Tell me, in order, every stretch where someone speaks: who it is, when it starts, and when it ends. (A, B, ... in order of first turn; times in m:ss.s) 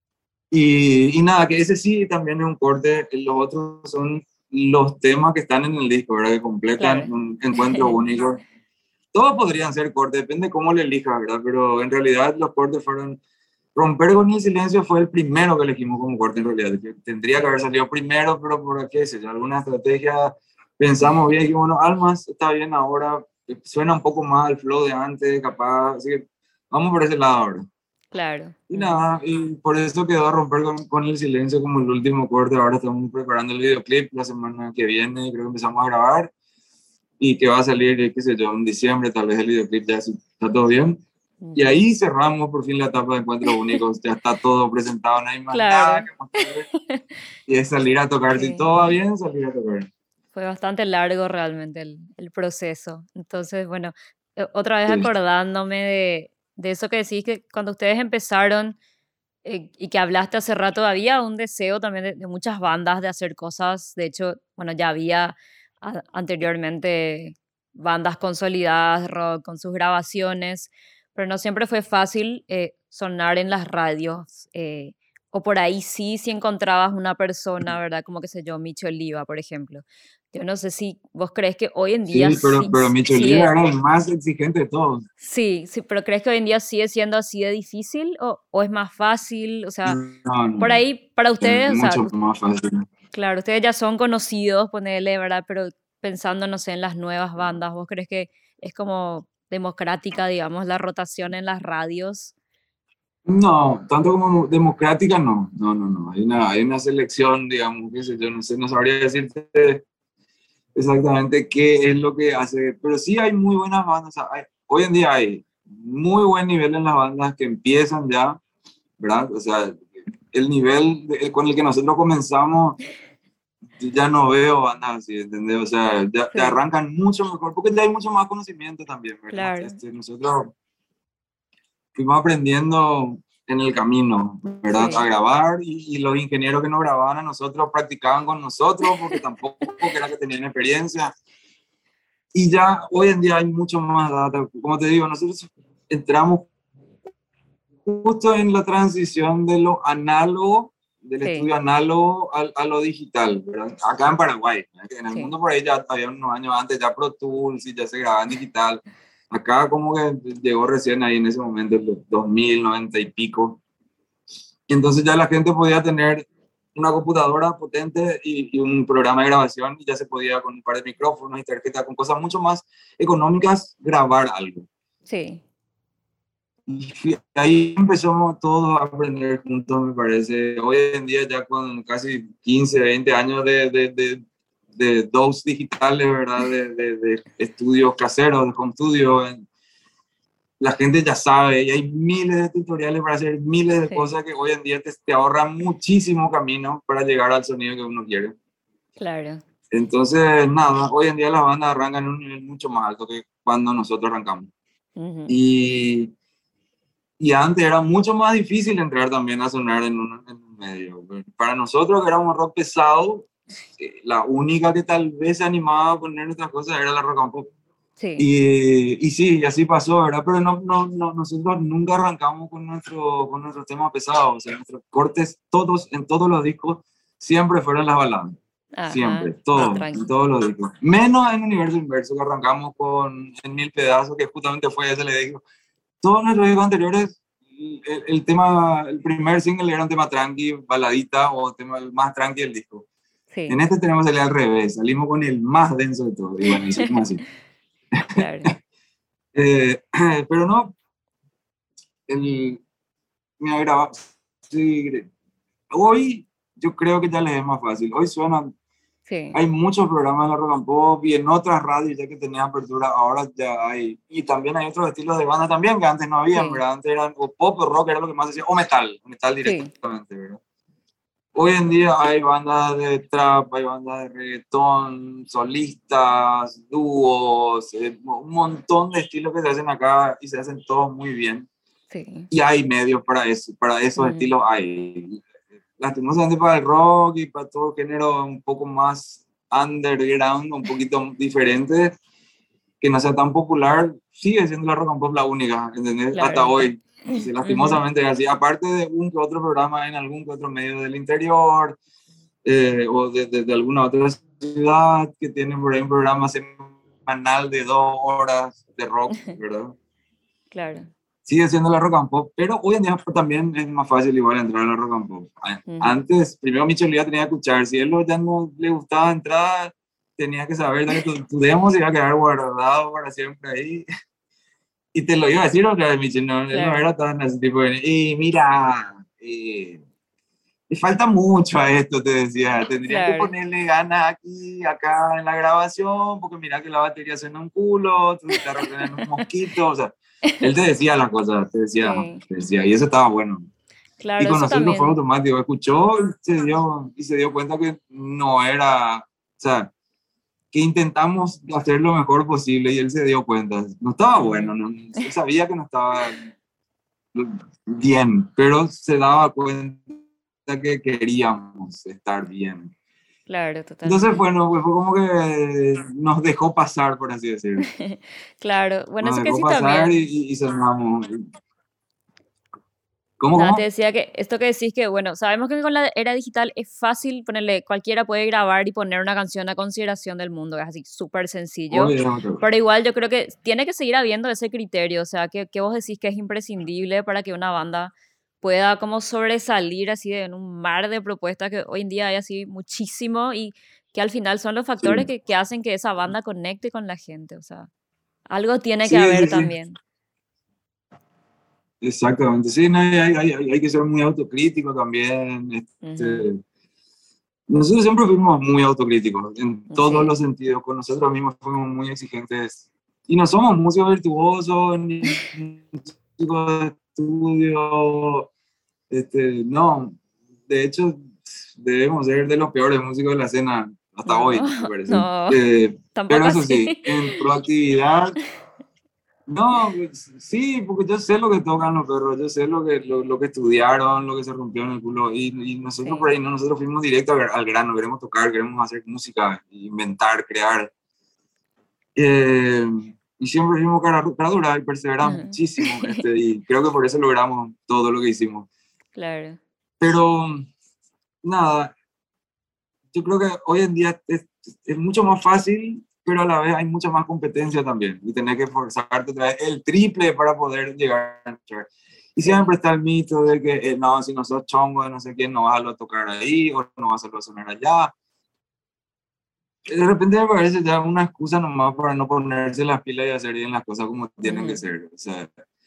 0:00.5-0:08.4 A
0:06.8-0:08.0 B
0:09.1-0:13.2 A
0:13.8-0:27.6 A
0:28.1-0:29.0 B
0:28.7-0:36.3 A
0:37.2-0:41.0 A
0:41.4-0:41.8 B
0:41.6-0:46.7 A
0:43.5-0:43.8 B
0:45.5-0:47.0 B
0:47.5-0:49.9 A
0:48.4-0:48.6 B
0:50.3-0:58.8 B
0:59.4-1:23.5 B
1:22.1-1:25.0 A
1:25.2-1:30.0 B
1:29.9-1:30.8 A
1:30.6-1:32.1 B
1:31.4-1:32.8 A
1:33.1-1:42.3 B
1:43.3-1:49.8 A
1:50.8-1:58.4 A
1:59.0-2:02.8 A
2:03.8-2:10.4 A
2:06.3-2:06.6 B
2:09.3-2:09.8 B
2:12.0-2:21.1 A
2:14.7-2:15.0 B
2:18.8-2:19.9 B
2:22.3-2:26.5 A
2:27.8-2:38.8 A
2:39.3-2:43.6 A
2:44.7-2:54.7 A
2:55.1-2:55.4 B
2:56.7-3:04.2 A
3:04.8-3:09.4 A
3:10.6-3:18.4 A
3:19.0-3:19.4 B
3:19.7-3:24.5 A
3:25.0-3:25.3 B
3:25.3-3:26.1 A
3:27.2-3:37.5 A
3:38.0-3:38.3 B
3:38.2-3:48.3 A
3:48.8-3:50.1 B
3:48.9-3:55.4 A
3:56.0-4:02.8 A
4:03.3-4:03.6 B
4:03.5-4:07.2 A
4:06.5-4:07.0 B
4:08.0-4:08.2 A
4:08.1-4:08.5 B
4:09.4-4:10.7 A
4:12.1-4:12.6 A
4:13.4-4:15.1 A
4:15.7-4:18.5 A
4:19.1-4:19.4 B
4:19.3-4:30.4 A
4:26.3-4:26.6 B
4:29.4-4:29.7 B
4:31.4-4:41.5 A
4:41.9-4:42.3 B
4:42.3-4:45.2 A
4:44.0-4:44.3 B
4:45.8-4:52.0 A
4:52.8-5:01.8 A
4:56.2-4:57.8 B
5:02.4-5:09.8 A
5:10.5-5:10.9 B
5:11.3-5:23.8 A
5:15.7-5:16.0 B
5:25.0-5:29.8 A
5:26.5-5:26.8 B
5:30.7-5:43.5 A
5:32.9-5:33.3 B
5:38.4-5:39.2 B
5:41.8-5:42.2 B
5:44.0-5:45.0 B
5:44.2-5:49.7 A
5:50.5-5:56.2 A
5:54.2-5:54.6 B
5:57.1-6:02.7 A
6:03.3-6:04.2 B
6:03.8-6:07.7 A
6:07.8-6:10.0 B
6:09.0-6:11.3 A
6:13.2-6:13.6 A
6:13.4-6:37.7 B
6:21.7-6:22.4 A
6:34.8-6:35.1 A
6:38.3-6:39.8 B
6:38.8-6:39.5 A
6:41.8-6:46.4 A
6:45.8-6:46.3 B
6:47.5-6:58.3 A
6:49.7-6:50.1 B
6:58.9-7:08.2 A
7:04.1-7:05.4 B
7:06.0-7:07.2 B
7:09.3-7:20.7 A
7:15.8-7:16.1 B
7:22.0-7:28.5 A
7:25.0-7:26.0 B
7:29.0-7:29.4 B
7:29.8-7:30.5 A
7:31.2-7:31.7 A
7:32.9-7:47.9 A
7:42.3-7:42.5 B
7:49.7-7:55.3 A
7:54.2-7:54.6 B